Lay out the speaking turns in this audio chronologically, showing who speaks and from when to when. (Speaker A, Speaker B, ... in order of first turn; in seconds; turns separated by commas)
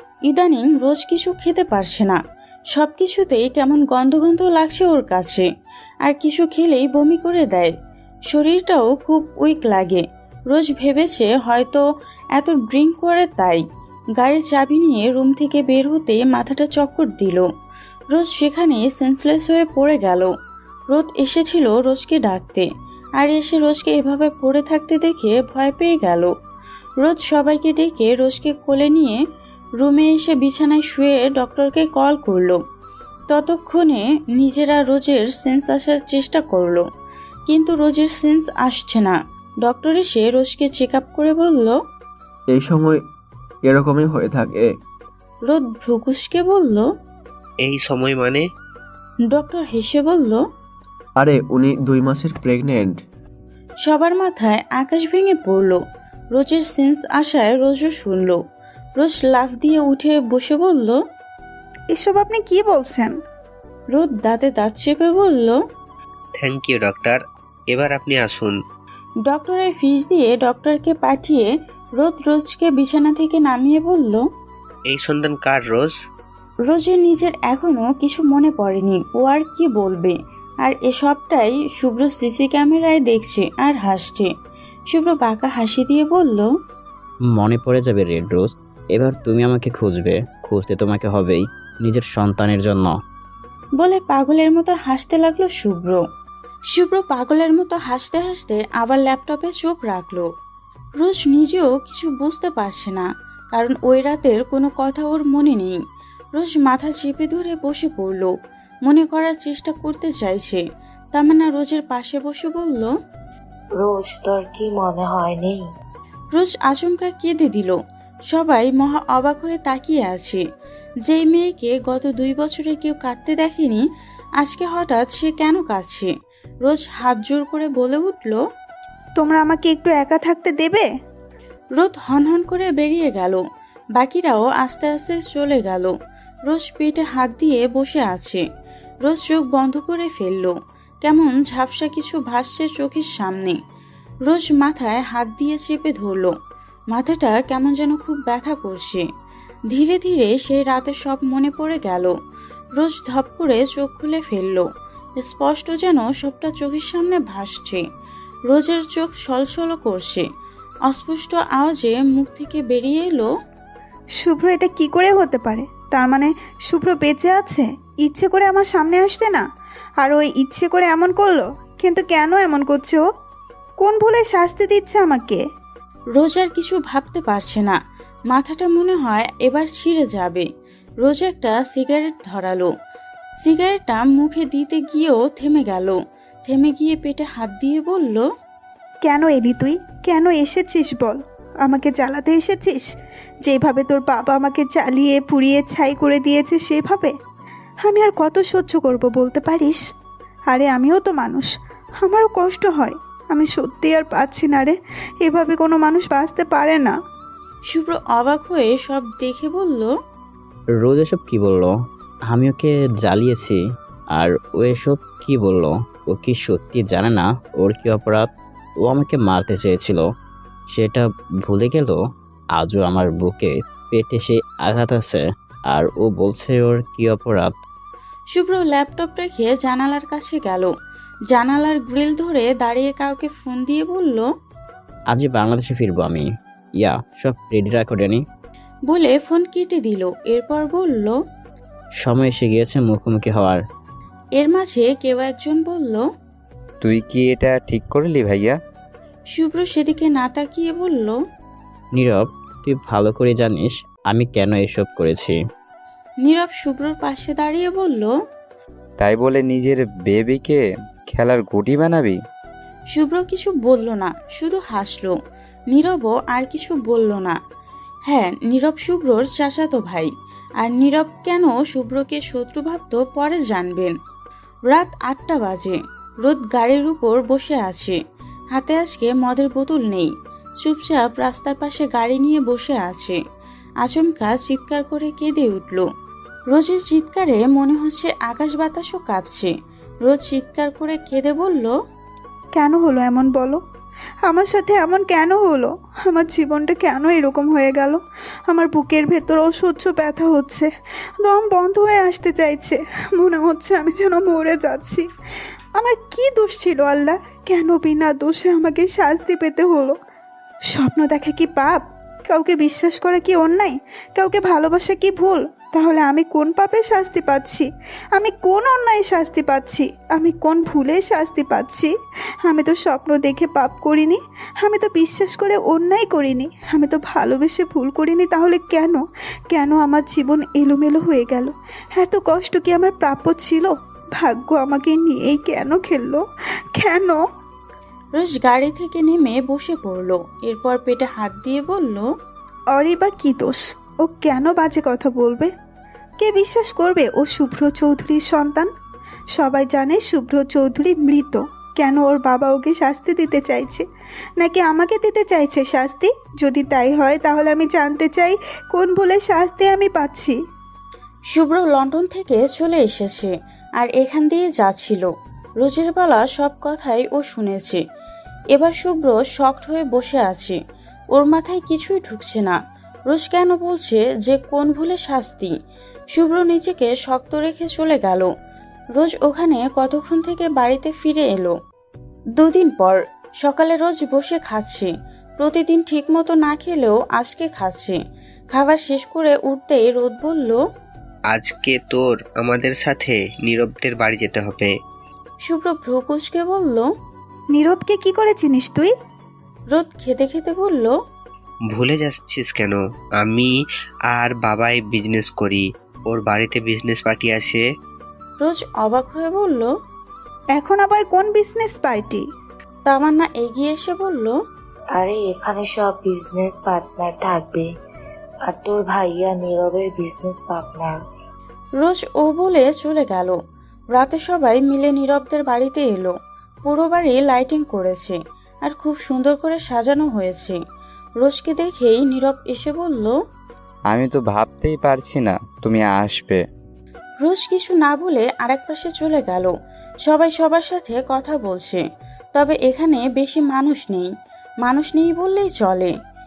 Speaker A: 0.2-2.2, Speaker A: 2.7-5.5, Speaker A: 6.0-7.7, Speaker A: 8.3-11.8, Speaker A: 12.3-13.6, Speaker A: 14.2-17.5, Speaker A: 18.1-20.3, Speaker A: 20.9-22.7, Speaker A: 23.2-26.3, Speaker A: 27.0-29.2, Speaker A: 29.8-32.6, Speaker A: 33.3-36.8, Speaker A: 37.5-41.8, Speaker B: 42.5-43.0, Speaker B: 43.6-44.7, Speaker A: 45.4-46.9, Speaker C: 47.6-48.4, Speaker A: 49.3-50.4, Speaker B: 51.2-53.0, Speaker A: 53.8-55.8, Speaker A: 56.3-58.4, Speaker A: 59.0-61.0, Speaker D: 61.9-63.1, Speaker A: 63.9-65.6, Speaker C: 66.4-68.6, Speaker A: 69.2-74.2, Speaker C: 74.9-75.9, Speaker A: 76.7-84.3, Speaker A: 84.9-86.5, Speaker E: 87.3-92.9, Speaker A: 93.8-96.0, Speaker A: 96.7-100.3, Speaker A: 101.0-105.8, Speaker A: 106.3-108.3, Speaker A: 108.8-110.6, Speaker A: 111.1-112.9, Speaker F: 113.8-115.6, Speaker A: 116.3-117.8, Speaker A: 118.3-120.4, Speaker A: 121.0-123.8, Speaker A: 124.4-126.1, Speaker A: 126.6-128.4, Speaker D: 129.2-130.8, Speaker A: 131.8-133.4, Speaker A: 133.9-135.9, Speaker A: 136.5-138.4, Speaker A: 139.0-143.6, Speaker A: 144.2-146.3, Speaker A: 146.9-149.0, Speaker A: 149.7-152.1, Speaker A: 152.8-154.7, Speaker A: 155.2-157.8, Speaker A: 158.5-160.2, Speaker A: 160.9-163.3, Speaker D: 164.2-169.4, Speaker D: 170.0-173.0, Speaker D: 173.8-175.4, Speaker A: 176.1-177.8, Speaker A: 178.3-180.4, Speaker A: 181.0-182.7, Speaker A: 183.4-188.2, Speaker D: 189.0-192.9, Speaker D: 193.4-197.1, Speaker D: 197.8-199.8, Speaker D: 200.5-201.5, Speaker D: 202.0-206.9, Speaker A: 207.7-209.9, Speaker E: 210.8-211.7, Speaker E: 212.3-213.6, Speaker E: 214.1-218.3, Speaker E: 218.8-220.1, Speaker E: 220.7-222.0, Speaker E: 222.5-227.5, Speaker A: 228.3-230.7, Speaker A: 231.3-234.3, Speaker E: 235.1-236.3, Speaker E: 236.8-238.2, Speaker A: 238.9-241.2, Speaker E: 242.0-243.6, Speaker A: 244.4-246.0, Speaker G: 246.8-248.6, Speaker A: 249.3-251.2, Speaker E: 251.9-255.4, Speaker A: 256.2-258.1, Speaker G: 259.0-262.2, Speaker A: 262.9-265.1, Speaker A: 265.7-267.4, Speaker A: 268.1-273.9, Speaker A: 274.7-278.0, Speaker A: 278.5-280.1, Speaker A: 280.6-283.2, Speaker A: 283.8-285.9, Speaker A: 286.5-289.5, Speaker A: 290.0-291.7, Speaker D: 292.5-293.6, Speaker D: 294.2-300.7, Speaker D: 301.2-305.1, Speaker D: 305.8-310.0, Speaker D: 310.7-321.9, Speaker D: 322.4-336.2, Speaker D: 336.8-337.2, Speaker A: 338.1-342.1, Speaker D: 342.7-345.5, Speaker D: 346.2-348.7, Speaker D: 349.3-353.8, Speaker D: 354.4-360.4, Speaker A: 361.3-365.1, Speaker A: 365.6-367.8, Speaker A: 368.5-370.6, Speaker A: 371.1-372.6, Speaker A: 373.1-375.5, Speaker A: 376.1-378.3, Speaker A: 378.9-381.5, Speaker A: 382.4-388.0, Speaker A: 388.5-390.6, Speaker C: 391.3-394.7, Speaker A: 395.4-396.9, Speaker D: 397.5-398.9, Speaker A: 399.7-400.9, Speaker C: 401.7-403.5, Speaker C: 404.1-407.6, Speaker A: 408.4-409.7, Speaker D: 410.6-412.2, Speaker A: 412.9-414.3, Speaker F: 414.9-417.7, Speaker F: 418.4-421.0, Speaker A: 421.8-423.4, Speaker A: 423.9-430.6, Speaker A: 431.2-433.1, Speaker G: 433.9-436.4, Speaker A: 437.2-439.5, Speaker A: 440.0-441.8, Speaker A: 442.3-444.1, Speaker A: 444.6-445.9